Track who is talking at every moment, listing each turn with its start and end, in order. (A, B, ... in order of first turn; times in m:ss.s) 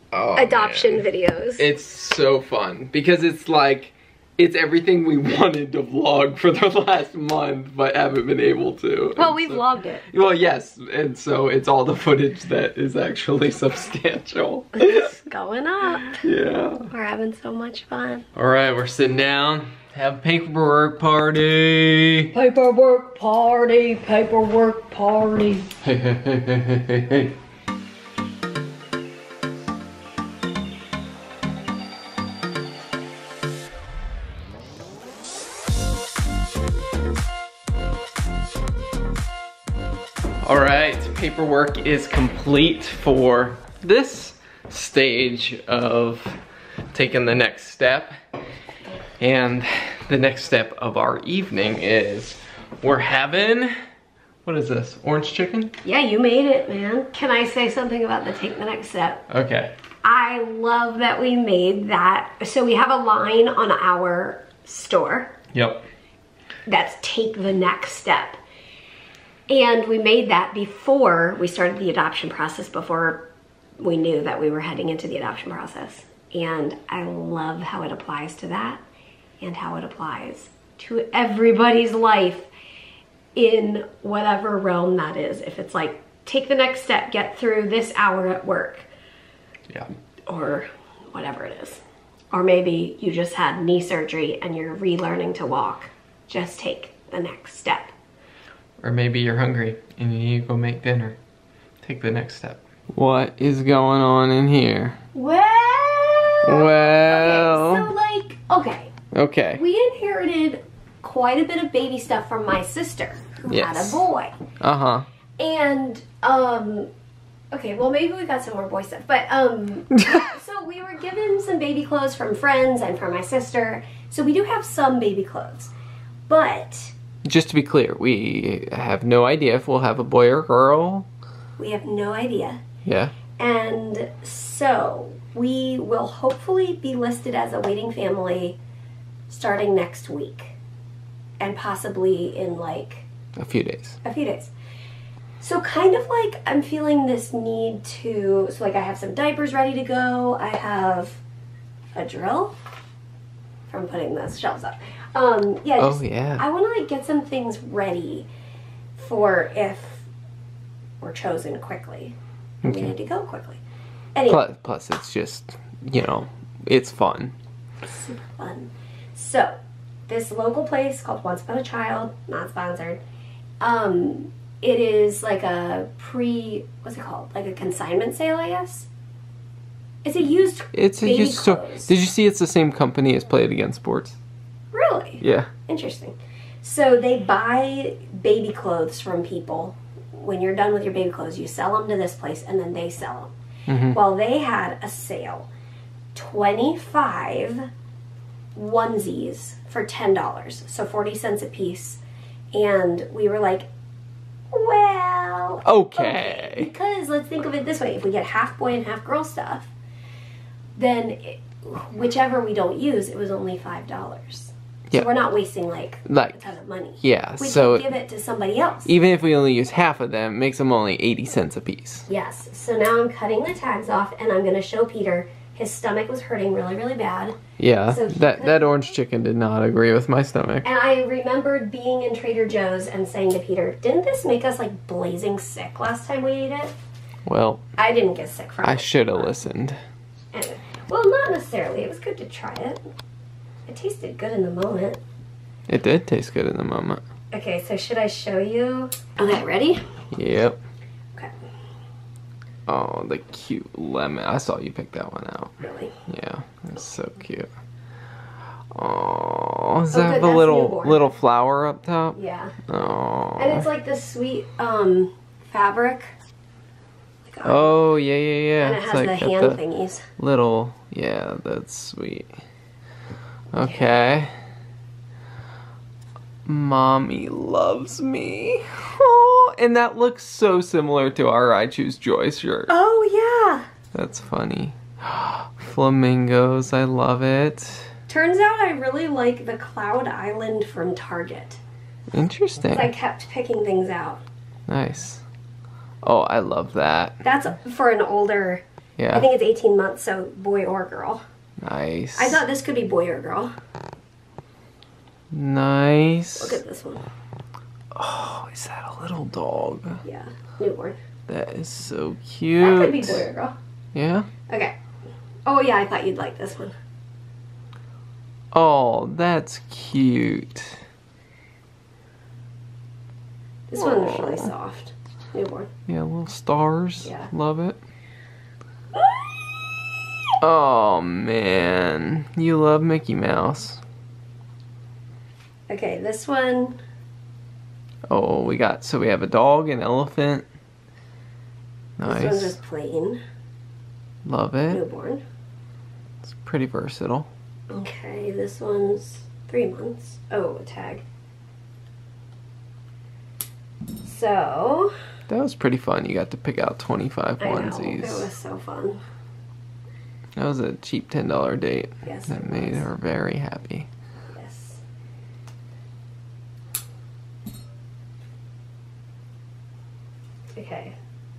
0:00.1-0:15.1 A
0:00.4-0:01.6 B
0:09.2-0:10.0 B
0:14.8-0:16.2 B
0:16.0-0:16.9 A
0:16.9-0:18.3 B
0:18.4-0:22.4 A
0:22.3-0:25.7 C
0:25.8-0:27.4 A
0:40.4-0:46.4 A
0:46.9-0:48.1 A
0:49.2-0:53.7 A
0:54.4-0:55.7 A
0:55.8-0:59.2 B
0:59.3-0:59.8 A
1:00.0-1:05.4 B
1:05.5-1:05.9 A
1:06.7-1:08.4 B
1:09.5-1:18.8 B
1:19.4-1:22.5 B
1:23.4-1:28.9 B
1:30.3-1:37.9 B
1:38.8-1:41.2 A
1:41.8-1:45.0 A
1:45.1-1:48.9 B
1:46.5-1:47.9 A
1:49.1-1:49.6 A
1:49.6-1:54.3 B
1:53.5-1:54.1 A
1:54.6-1:55.1 A
1:55.4-1:56.9 B
1:57.5-2:05.7 B
2:06.3-2:06.9 B
2:07.2-2:11.1 A
2:11.6-2:12.6 B
2:12.8-2:13.2 A
2:13.4-2:18.6 B
2:19.3-2:20.6 B
2:21.4-2:23.1 B
2:23.4-2:24.0 A
2:24.0-2:24.5 B
2:25.4-2:31.2 B
2:32.0-2:32.6 B
2:33.7-2:38.3 B
2:35.8-2:36.4 A
2:39.0-2:40.1 B
2:41.0-2:43.6 B
2:42.6-2:42.9 A
2:44.2-2:44.4 B
2:44.3-2:47.3 A
2:47.8-2:49.6 B
2:50.1-2:53.0 B
2:53.6-2:58.9 B
3:00.0-3:01.9 B
3:00.7-3:04.2 A
3:04.7-3:13.3 B
3:05.2-3:05.5 A
3:13.7-3:14.0 A
3:13.9-3:15.5 B
3:16.2-3:17.7 B
3:18.6-3:22.0 B
3:22.5-3:23.7 B
3:24.5-3:29.7 B
3:25.6-3:26.7 A
3:30.8-3:38.9 B
3:36.1-3:37.9 A
3:38.9-3:42.1 A
3:42.1-3:48.7 B
3:47.6-3:50.7 A
3:50.6-3:56.7 B
3:57.3-3:57.6 A
3:57.8-3:59.3 B
3:58.6-3:59.8 A
4:00.3-4:02.8 B
4:03.7-4:05.0 B
4:05.7-4:07.0 A
4:07.3-4:09.8 B
4:10.1-4:10.6 A
4:12.7-4:15.5 A
4:15.6-4:15.9 B
4:16.1-4:17.5 A
4:18.8-4:23.7 A
4:19.9-4:21.0 B
4:22.2-4:22.6 B
4:23.4-4:26.1 B
4:27.3-4:27.8 B
4:27.4-4:29.6 A
4:28.6-4:30.0 B
4:30.2-4:32.3 A
4:33.5-4:34.3 A
4:36.5-4:42.7 A
4:42.7-4:43.6 B
4:43.9-4:47.9 A
4:48.1-4:51.6 B
4:52.1-4:52.9 A
4:52.7-4:54.2 B
4:54.7-4:55.2 A
4:56.0-4:57.2 A
4:57.2-5:01.2 B
4:59.0-4:59.3 A
5:01.6-5:02.4 A
5:02.2-5:03.5 B
5:05.3-5:06.6 A
5:06.4-5:07.0 B
5:07.9-5:10.0 A
5:10.0-5:11.0 B
5:11.3-5:13.3 A
5:12.6-5:13.6 B
5:13.9-5:14.3 A
5:14.5-5:14.8 B
5:15.5-5:16.7 B
5:18.5-5:20.8 A
5:23.7-5:25.7 B
5:23.8-5:24.5 A
5:25.9-5:27.8 A
5:27.0-5:27.3 B
5:29.0-5:29.8 B
5:30.4-5:33.8 A
5:35.7-5:36.8 B
5:38.1-5:40.5 A
5:42.0-5:42.6 A
5:42.0-5:43.2 B
5:44.2-5:44.8 A
5:44.7-5:45.2 B
5:46.2-5:47.3 A
5:47.7-5:51.0 B
5:54.0-5:54.9 B
5:55.3-5:58.3 A
5:57.4-5:59.0 B
6:00.4-6:03.9 A
6:02.0-6:02.9 B
6:04.3-6:04.8 B
6:10.6-6:11.0 B